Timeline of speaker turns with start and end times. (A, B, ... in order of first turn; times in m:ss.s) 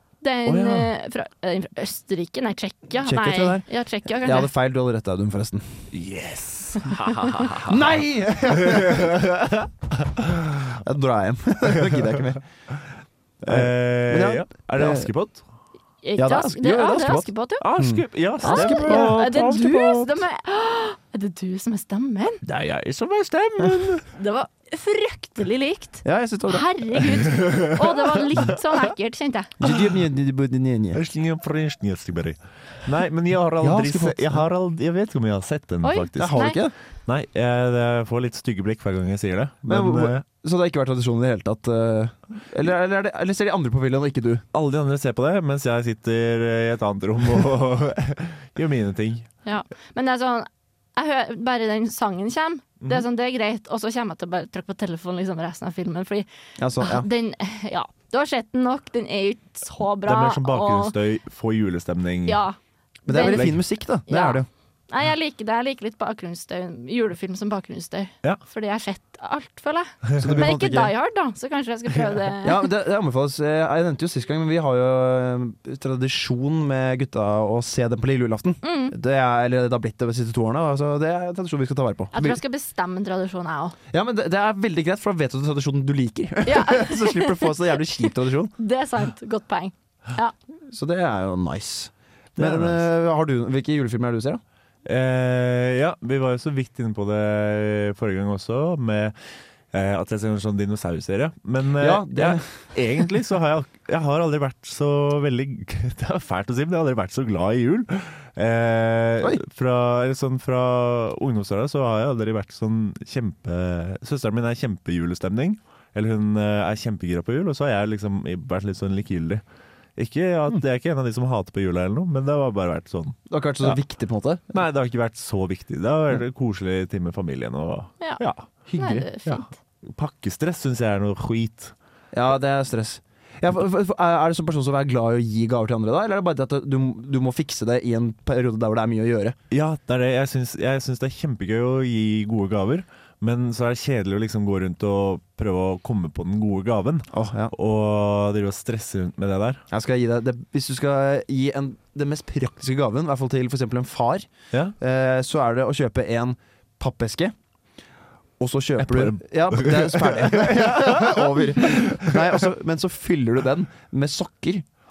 0:00.2-0:04.5 A
0:00.5-0:00.9 B
0:03.0-0:03.7 C
0:04.2-0:05.9 C
0:05.9-0:08.0 B
0:07.6-0:09.2 C
0:08.6-0:10.8 B
0:10.7-0:12.4 C
0:11.8-0:12.2 B
0:13.4-0:15.4 B
0:13.4-0:15.1 C
0:16.0-0:17.6 A
0:16.2-0:19.3 C
0:17.6-0:20.1 B
0:18.4-0:22.4 A
0:22.4-0:24.1 B
0:24.1-0:29.5 A
0:26.0-0:26.7 C
0:27.3-0:27.7 B
0:29.6-0:31.0 C
0:30.9-0:40.2 B
0:33.6-0:34.4 C
0:35.8-0:36.6 A
0:36.2-0:36.7 C
0:39.7-0:44.4 C
0:44.5-0:49.3 B
0:49.4-0:56.3 A
0:56.6-0:57.1 C
0:56.8-1:01.0 A
1:00.0-1:02.4 B
1:02.3-1:03.5 A
1:03.1-1:04.5 C
1:03.1-1:03.6 B
1:04.1-1:12.7 A
1:10.2-1:10.9 C
1:12.4-1:22.4 C
1:18.6-1:19.0 A
1:22.1-1:23.8 A
1:23.9-1:28.5 C
1:26.5-1:30.3 A
1:30.7-1:34.4 C
1:32.4-1:32.8 B
1:34.8-1:39.2 B
1:39.7-1:59.4 B
1:41.8-1:42.4 C
2:00.0-2:03.8 B
2:03.3-2:04.6 C
2:04.5-2:08.5 B
2:08.7-2:09.1 C
2:08.8-2:09.5 A
2:09.2-2:11.7 B
2:12.1-2:19.4 C
2:19.5-2:29.6 B
2:27.1-2:27.5 C
2:29.7-2:34.3 C
2:34.8-2:37.3 C
2:38.4-2:44.7 C
2:38.8-2:42.2 B